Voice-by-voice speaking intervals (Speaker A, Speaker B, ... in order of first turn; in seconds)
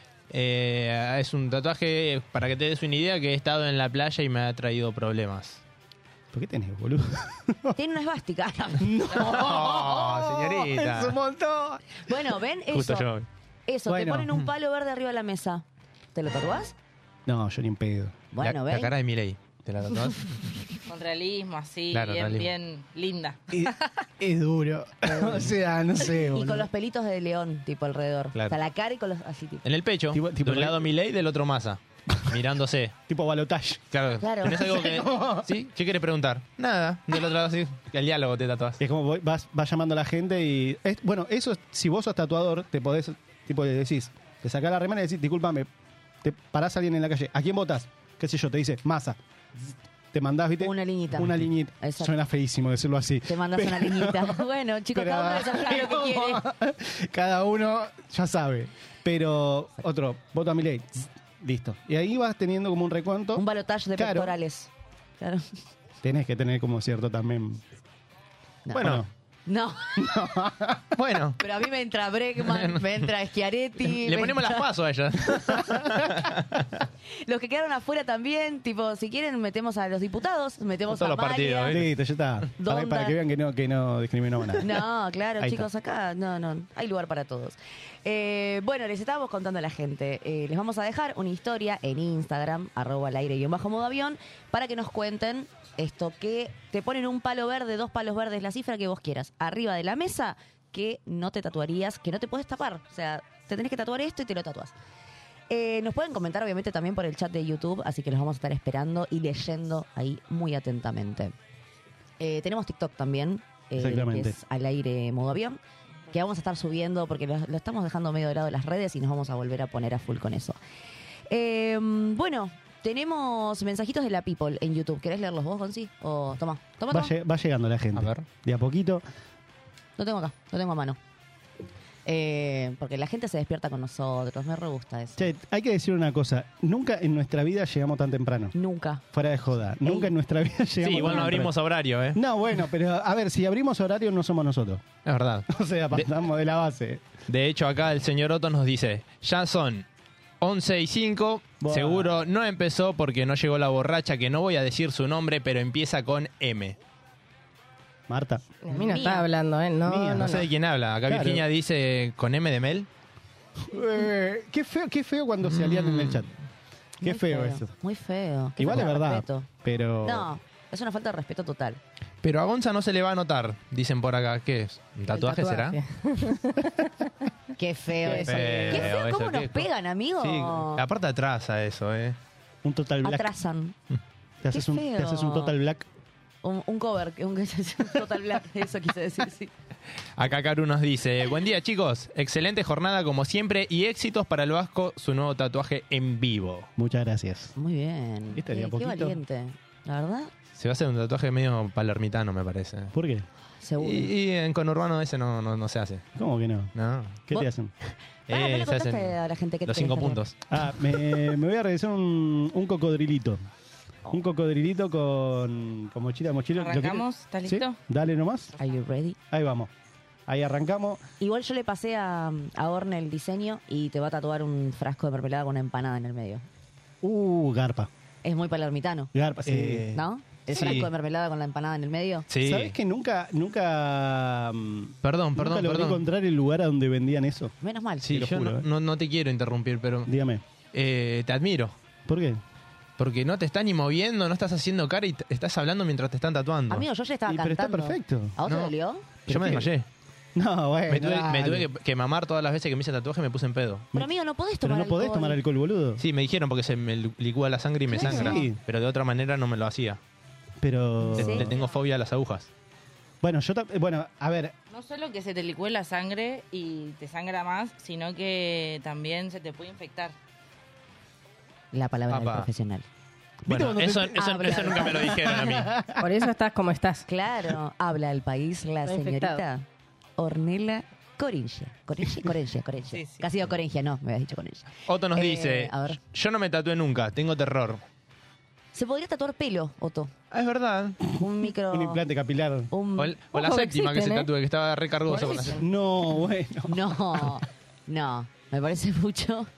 Speaker A: 0.3-5.6, 9.2-11.2, 12.7-13.3, 18.4-20.5, 21.9-22.5, 29.6-33.0, 33.9-38.8, 68.8-69.0, 70.9-71.4, 72.4-73.1, 73.8-76.6, 80.9-81.9, 128.0-128.2, 140.8-142.2, 145.0-146.1, 147.3-149.8, 150.4-156.8, 160.2-162.9, 165.4-166.3, 172.2-175.8, 178.0-182.2, 190.2-196.7, 200.6-202.9, 203.8-206.0, 206.7-207.2, 208.3-210.4, 230.5-230.9, 232.3-232.7, 235.0-236.0, 238.0-240.1, 240.7-241.7, 243.0-246.8, 248.4-248.7, 249.2-249.9, 250.9-253.9, 256.0-260.0, 261.1-262.5, 272.1-272.5, 273.4-275.8, 284.9-287.8, 290.3-291.0, 293.0-295.6
Speaker B: 6.3-7.8, 8.8-11.8, 13.9-14.4, 17.3-18.1, 23.5-26.7, 30.1-30.9, 32.1-32.4, 33.1-33.8, 34.4-35.5, 38.8-45.7, 46.2-64.3, 66.0-67.6, 68.7-69.1, 70.0-71.0, 81.7-84.8, 85.4-85.7, 113.8-114.4, 126.9-129.0, 135.2-138.5, 139.1-141.5, 142.1-144.8, 145.5-147.0, 151.6-152.2, 158.1-158.5, 159.8-160.5, 161.0-161.4, 163.6-166.3, 167.0-167.7, 168.6-170.3, 182.6-183.3, 184.4-185.9, 196.8-197.5, 198.3-199.2, 202.9-203.2, 206.2-206.7, 207.3-207.7, 210.5-213.4, 214.1-218.5, 219.3-219.7, 220.3-221.0, 227.0-227.9, 229.1-230.9, 232.4-237.5, 238.1-238.6, 240.1-240.4, 242.1-242.4, 247.3-248.3, 249.3-249.7, 250.3-251.7, 254.6-256.0, 257.9-258.6, 260.6-261.5, 263.2-264.5, 273.4-276.0, 291.7-292.7, 295.4-297.3
Speaker C: 7.7-9.0, 12.0-13.1, 13.7-15.6, 16.1-16.7, 18.3-18.9, 25.0-29.6, 34.2-34.8, 50.6-52.1, 53.2-56.4, 63.3-65.5, 68.7-70.2, 71.4-74.7, 77.1-81.8, 82.6-83.2, 84.6-104.7, 105.5-111.3, 112.2-115.6, 116.1-120.6, 121.3-127.1, 130.0-131.0, 132.1-135.2, 138.5-139.0, 158.7-159.3, 167.0-169.5, 170.0-171.8, 177.6-180.8, 183.0-183.7, 184.5-185.6, 186.4-189.5, 197.6-200.3, 203.6-204.1, 207.3-210.2, 218.6-219.2, 221.2-226.4, 228.2-232.2, 237.6-238.1, 246.7-249.1, 253.9-255.4, 257.9-258.4, 261.1-261.5, 271.7-272.9, 274.1-275.2, 277.1-279.6, 280.2-286.0, 288.7-290.1, 291.1-292.0, 292.7-293.1, 295.1-295.4, 296.7-299.5
Speaker D: 20.9-23.9, 216.5-217.8, 264.7-270.1, 282.9-283.2
Speaker E: 158.6-160.4, 175.1-176.9, 178.1-178.8, 276.0-277.0, 278.8-279.4, 293.3-294.3